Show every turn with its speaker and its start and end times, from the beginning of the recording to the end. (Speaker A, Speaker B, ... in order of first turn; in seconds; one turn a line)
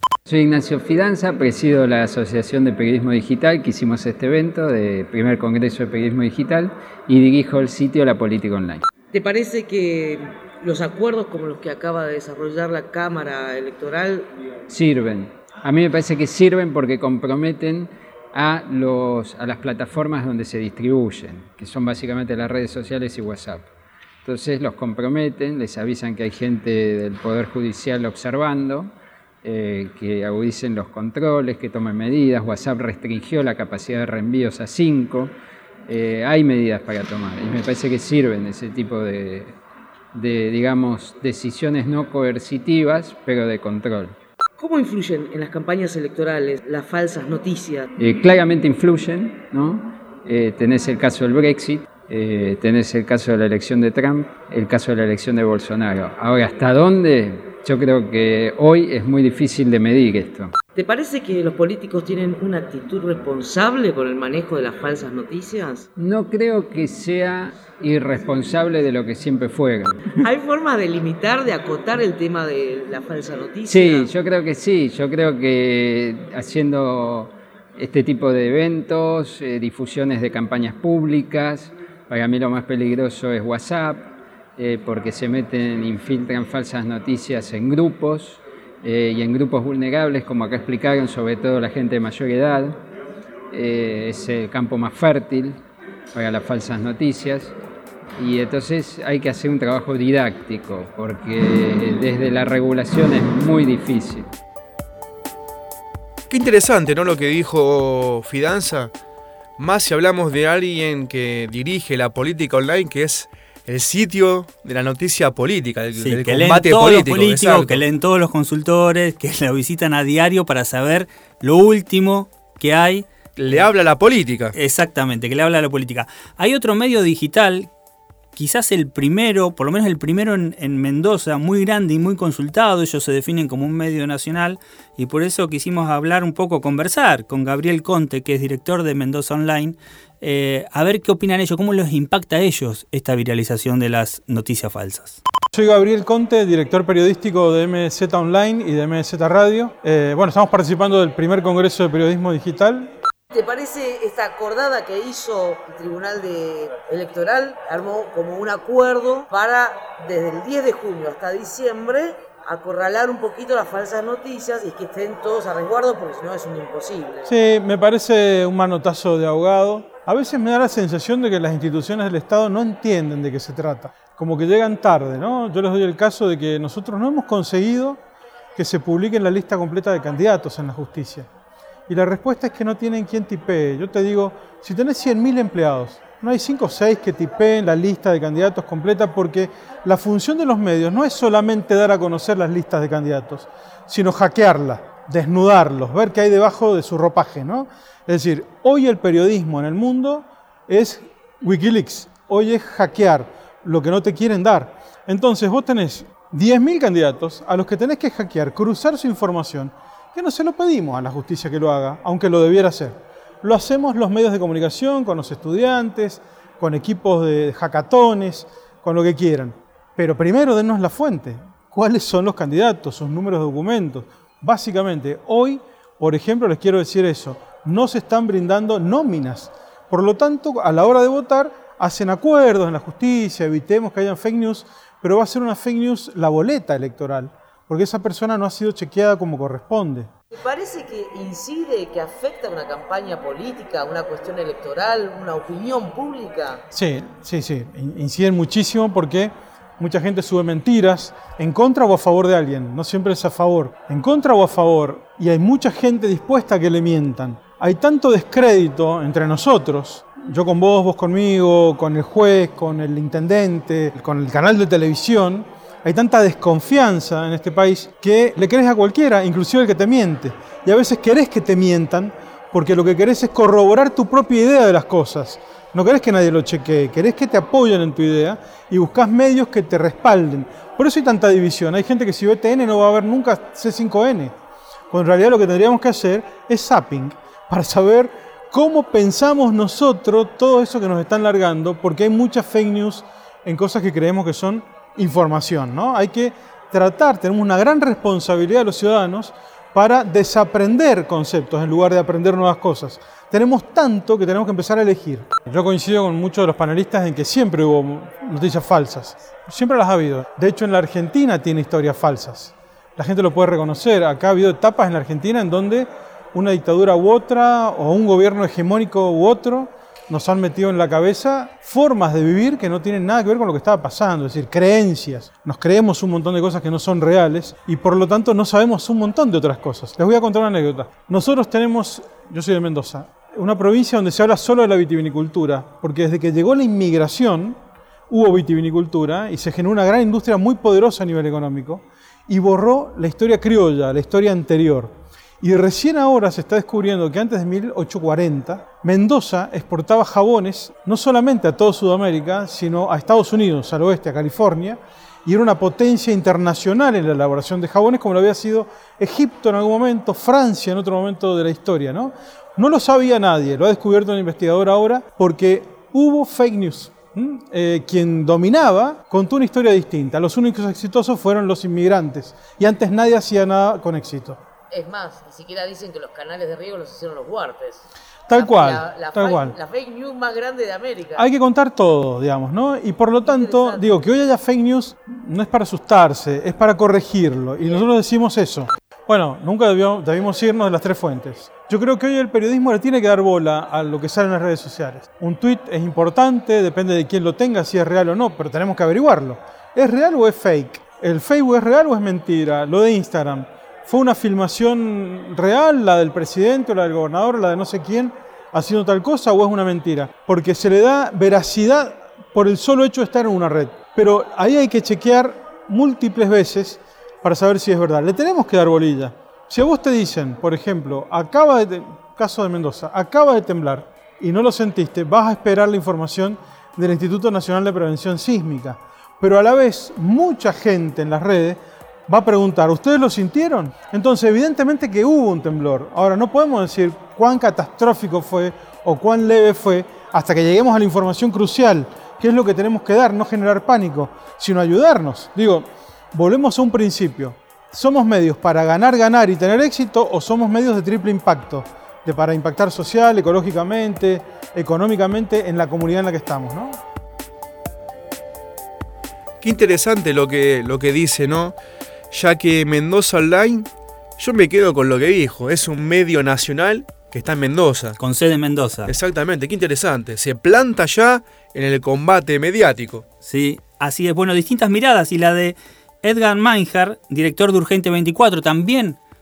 Speaker A: 0.3-8.9
Speaker B: 9.1-14.3
Speaker A: 14.7-23.7
Speaker A: 24.2-35.3
Speaker A: 35.9-39.6
Speaker A: 40.1-44.2
Speaker B: 44.6-47.9
Speaker A: 48.0-60.5
Speaker B: 60.8-65.8
Speaker A: 66.0-70.2
Speaker B: 70.2-74.1
Speaker A: 73.7-92.8
Speaker A: 93.5-95.6
Speaker A: 96.1-97.5
Speaker A: 98.2-104.3
Speaker C: 106.3-108.9
Speaker C: 109.6-117.8
Speaker D: 116.0-123.1
Speaker C: 123.4-124.5
Speaker D: 124.5-127.7
Speaker D: 128.3-145.2
Speaker E: 145.5-152.9
Speaker B: 153.3-167.3
Speaker E: 167.3-178.0
Speaker E: 178.6-181.3
Speaker E: 181.9-240.1
Speaker B: 240.3-246.6
Speaker E: 246.7-284.3
Speaker E: 284.9-337.6
Speaker E: 338.1-374.4
Speaker B: 374.7-377.8
Speaker E: 378.3-379.6
Speaker B: 378.4-381.2
Speaker E: 381.1-456.8
Speaker B: 383.2-383.8
Speaker C: 459.4-461.6
Speaker C: 462.1-468.0
Speaker D: 468.0-468.9
Speaker C: 468.9-473.0
Speaker D: 473.2-479.0